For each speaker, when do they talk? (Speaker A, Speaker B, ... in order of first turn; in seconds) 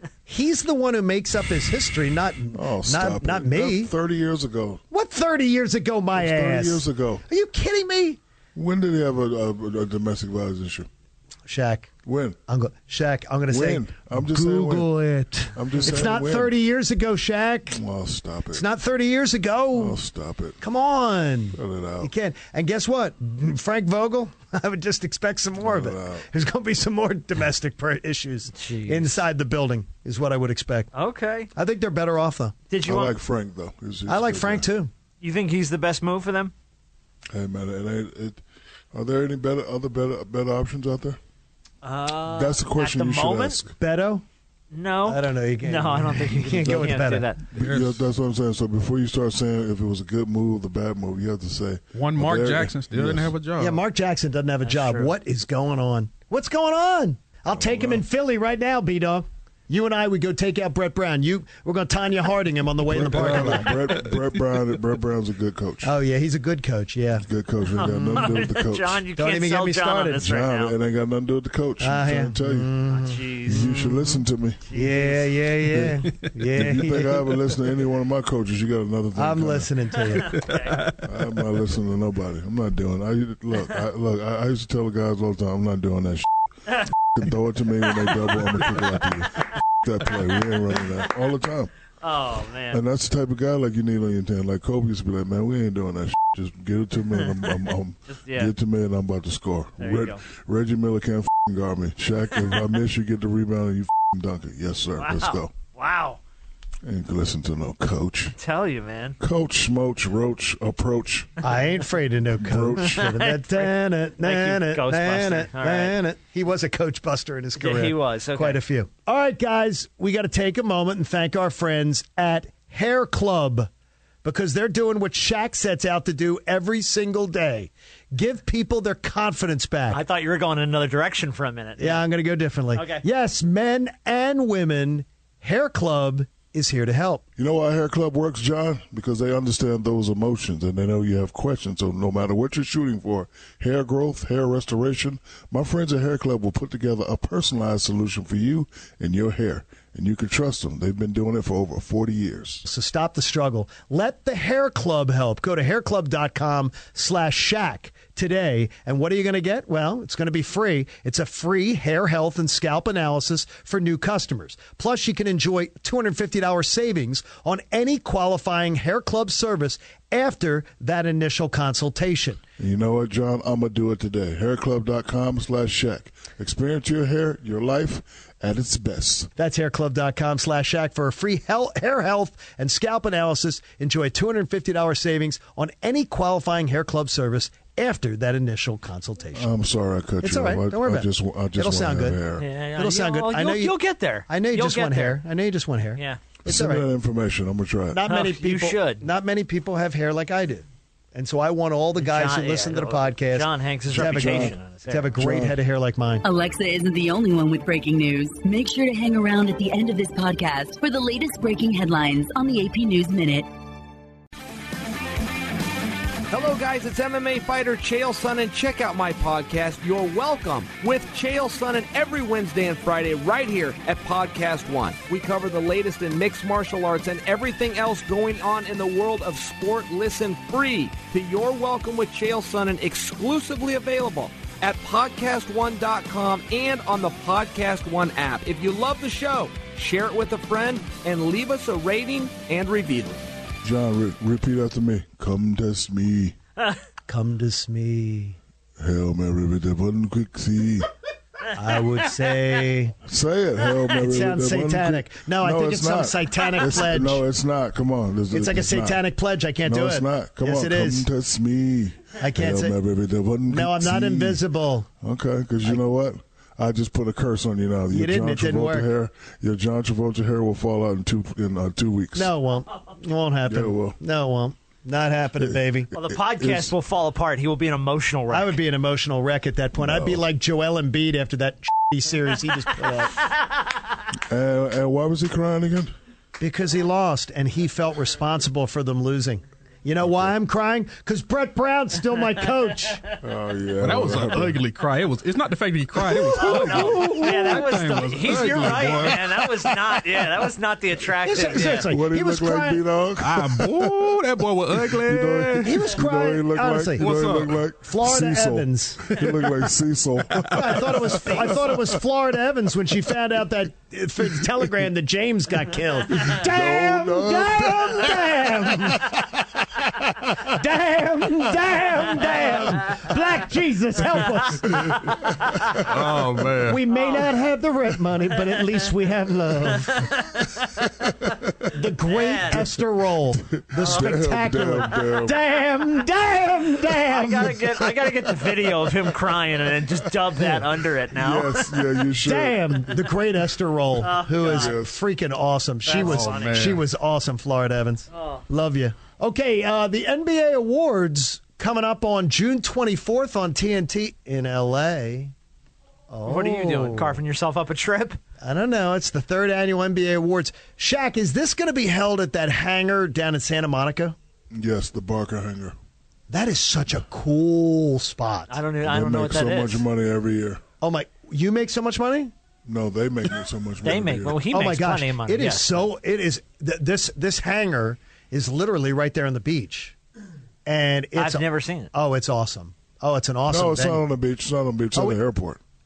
Speaker A: 0.3-3.9, 4.9-8.2, 11.5-11.9, 12.5-17.8, 18.5-20.0, 20.6-30.9, 31.6-32.5, 34.1-34.9, 43.8-44.2, 45.1-47.3, 53.6-63.7, 65.8-67.3, 69.2-70.2, 71.8-74.2, 74.7-77.3, 79.2-80.3, 111.4-123.7, 124.2-130.0, 131.8-137.2, 152.6-172.4, 179.4-189.5, 190.2-192.2, 192.8-193.8, 194.3-196.9, 197.9-206.2, 247.1-248.4, 251.5-252.9, 253.9-257.2, 258.3-261.1, 262.2-262.8, 263.5-264.9, 267.9-268.9, 272.2-275.9, 278.3-283.2, 286.4-293.0, 296.5-297.2, 301.2-302.8, 305.6-307.1, 307.8-309.2, 310.5-319.2, 320.5-325.2, 326.6-330.1, 331.7-337.6, 342.2-355.3, 356.1-357.2, 358.4-364.2, 366.3-368.6, 370.8-372.3, 374.5-379.9, 380.7-384.0
Speaker B: 2.5-4.8, 6.2-7.2, 8.6-10.9, 12.1-12.4, 13.5-14.9, 15.5-16.6, 17.7-18.7, 19.7-20.6, 21.5-22.1, 25.6-26.3, 32.8-34.7, 37.3-38.4, 38.9-41.2, 42.2-43.7, 47.5-53.4, 57.5-58.0, 62.8-65.9, 67.2-69.0, 70.1-72.7, 73.5-74.7, 75.7-79.7, 81.0-86.3, 87.1-91.7, 92.7-105.5, 106.8-108.3, 109.2-111.3, 112.4-113.2, 137.4-152.6, 172.6-179.3, 189.3-192.5, 196.4-198.0, 203.9-204.6, 205.2-205.6, 243.6-246.4, 248.8-250.9, 253.1-259.0, 259.6-264.4, 265.0-272.3, 273.5-274.0, 275.4-276.7, 279.8-280.2, 284.1-285.9, 290.0-290.3, 293.2-294.6, 298.6-298.9, 301.7-312.0, 316.1-319.2, 324.9-326.6, 333.5-335.4, 341.1-342.9, 344.4-344.9, 364.5-365.8, 368.8-370.6, 372.7-374.4, 383.5-385.6
Speaker C: 28.6-29.2, 30.9-31.5, 32.7-33.1, 35.2-36.5, 41.8-43.6, 44.7-47.4, 54.6-55.1, 67.8-70.8, 72.9-73.8, 74.7-75.2, 80.4-80.8, 92.0-92.8, 98.1-98.5, 99.8-100.2, 105.0-106.2, 108.4-109.2, 112.8-116.0, 117.6-118.6, 129.9-132.0, 132.7-133.0, 192.4-195.2, 198.1-199.1, 202.0-205.2, 275.9-278.6, 296.2-301.9, 326.9-327.3, 329.9-330.8, 332.1-332.6, 333.8-334.1, 337.1-341.7, 344.0-344.8, 345.9-346.7, 348.1-348.4, 356.2-358.2, 368.5-369.9, 373.8-375.9, 381.1-381.9
Speaker D: 47.5-48.0, 52.0-53.8, 80.5-81.0, 293.8-300.0, 303.2-305.8, 307.0-307.6, 325.8-326.8, 346.0-346.8
Speaker E: 206.2-213.5
Speaker F: 216.3-243.2